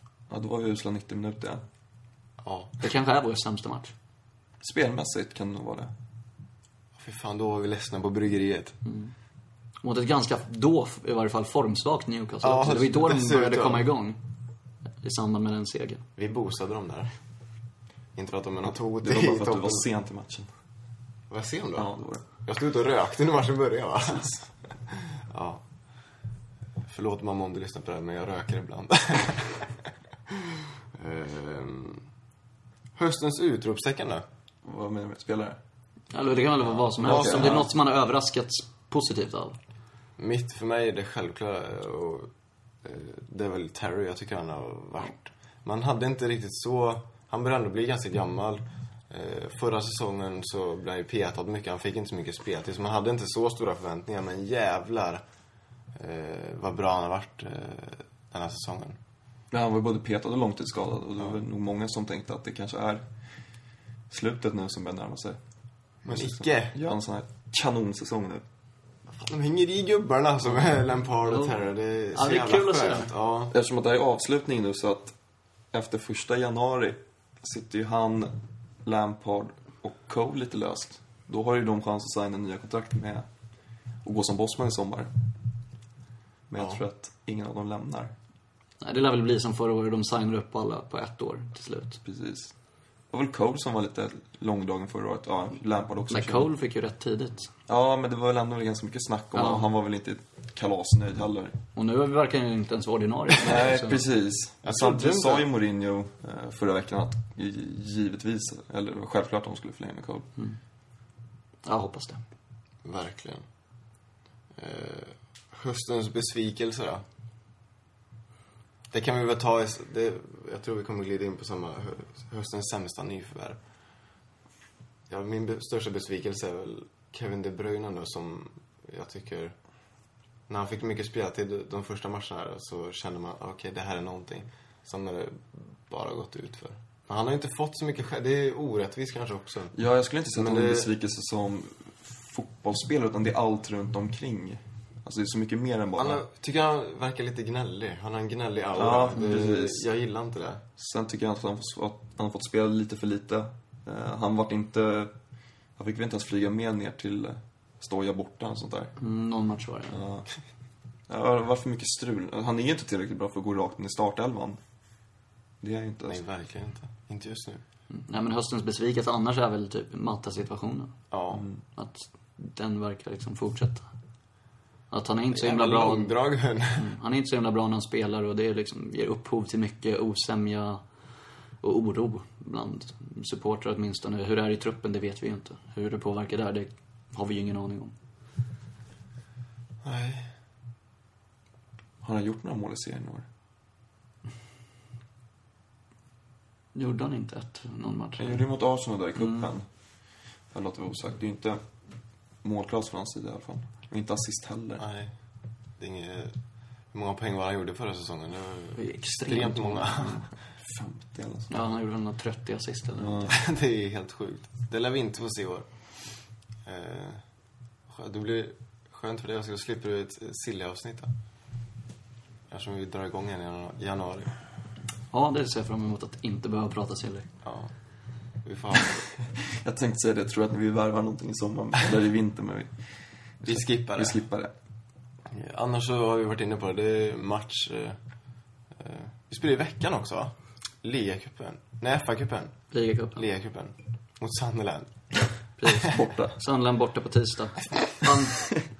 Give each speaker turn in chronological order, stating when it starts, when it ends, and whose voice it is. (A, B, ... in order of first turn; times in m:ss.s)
0:00.3-0:01.6 A
0:02.4-0:02.8 B
0:02.8-0:03.9 C
0:04.6-0:05.9 A
0:07.0-0:08.8 B
0:08.8-0:09.1 C
0:09.8-0:14.2 C
0:12.4-0:13.9 B
0:15.0-0:16.0 C
0:16.2-0:17.2 B
0:18.2-0:19.9 B
0:18.7-0:20.5 A
0:21.3-0:25.6 B
0:21.8-0:22.2 A
0:26.8-0:32.1 B
0:33.0-0:34.2 B
0:34.6-0:35.6 A
0:36.1-0:39.6 C
0:36.8-0:37.7 B
0:37.0-0:37.7 A
0:40.2-0:42.3 B
0:42.8-0:55.2 B
0:56.0-0:59.0 B
0:59.5-1:03.1 A
1:04.1-1:05.4 A
1:06.0-1:06.8 B
1:06.1-1:08.4 A
1:09.1-1:13.5 B
1:11.3-1:11.6 C
1:12.1-1:13.1 C
1:13.5-1:15.2 A
1:15.7-1:23.3 A
1:24.0-1:25.1 A
1:26.5-1:28.2 A
1:26.6-1:26.8 B
1:28.8-1:32.0 C
1:32.0-1:32.5 A
1:33.1-1:36.5 A
1:36.1-1:37.5 C
1:37.7-1:41.6 A
1:39.3-1:39.6 C
1:41.8-1:44.0 C
1:43.4-1:50.3 A
1:44.6-1:45.5 B
1:51.6-1:52.2 C
1:52.8-1:53.4 B
1:54.6-1:57.0 B
1:58.9-2:03.6 B
2:05.1-2:09.6 B
2:10.5-2:19.8 B
2:19.7-2:26.2 A
2:20.3-2:20.9 B
2:26.0-2:30.6 B
2:28.8-2:29.8 A
2:30.8-2:35.1 A
2:35.8-2:39.0 A
2:39.0-2:40.0 C
2:39.9-2:40.3 A
2:41.1-2:44.6 A
2:45.6-2:46.2 A
2:46.1-2:47.6 B
2:47.9-2:51.0 C
2:51.1-2:51.4 B
2:51.3-2:51.6 A
2:51.8-2:53.9 C
2:54.9-2:56.2 C
2:55.3-2:56.9 B
2:56.8-3:00.8 C
3:01.6-3:07.9 C
3:09.8-3:10.3 B
3:12.0-3:13.3 A
3:16.8-3:18.4 C
3:18.2-3:21.6 A
3:22.4-3:24.8 A
3:24.8-3:25.1 B
3:25.8-3:26.4 B
3:26.9-3:30.2 B
3:28.8-3:30.3 C
3:30.6-3:31.6 A
3:31.5-3:33.3 C
3:33.0-3:33.3 A
3:33.3-3:37.2 B
3:37.9-3:41.1 B
3:42.5-3:44.4 B
3:45.1-3:47.3 C
3:47.4-3:47.7 B
3:48.4-3:49.1 B
3:49.2-3:54.5 A
3:53.4-3:54.2 B
3:55.3-3:58.0 B
3:58.8-4:02.6 B
4:02.7-4:03.2 C
4:03.2-4:04.9 B
4:05.6-4:08.5 C
4:05.9-4:06.4 A